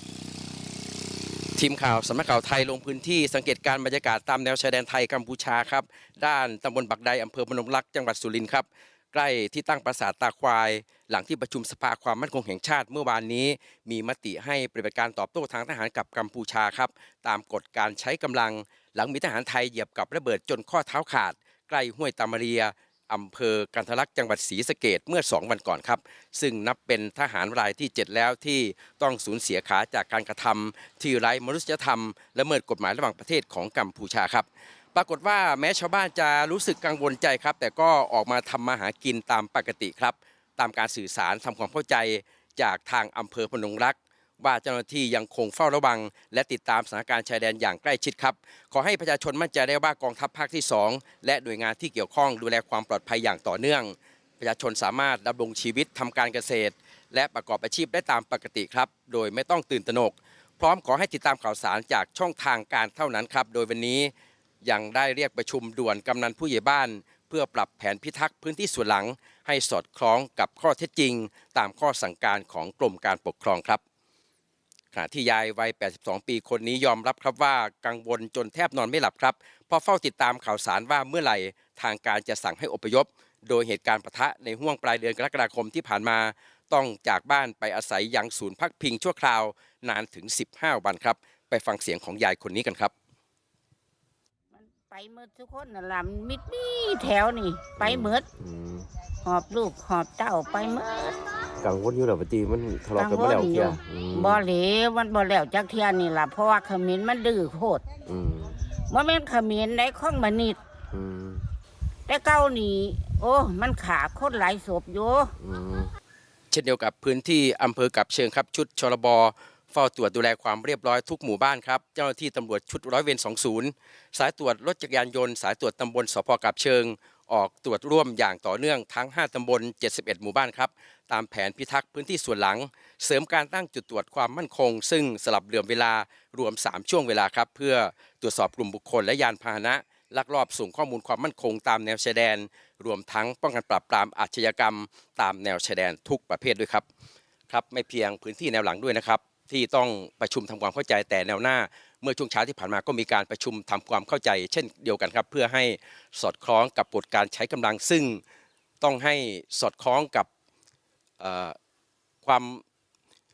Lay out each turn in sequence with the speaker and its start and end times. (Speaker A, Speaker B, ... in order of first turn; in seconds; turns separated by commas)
Speaker A: 1.6-64.1, Speaker A: 64.6-73.8, Speaker A: 74.9-92.9, Speaker B: 94.5-98.2, Speaker C: 97.8-98.9, Speaker B: 99.2-101.4, Speaker C: 101.6-104.4, Speaker B: 103.0-107.9, Speaker C: 108.0-108.6, Speaker B: 108.9-110.6, Speaker C: 110.9-111.4, Speaker B: 112.1-115.3, Speaker C: 115.4-115.9, Speaker A: 116.5-146.8, Speaker A: 147.5-158.2, Speaker A: 158.8-160.3, Speaker A: 161.2-161.6, Speaker A: 162.2-162.6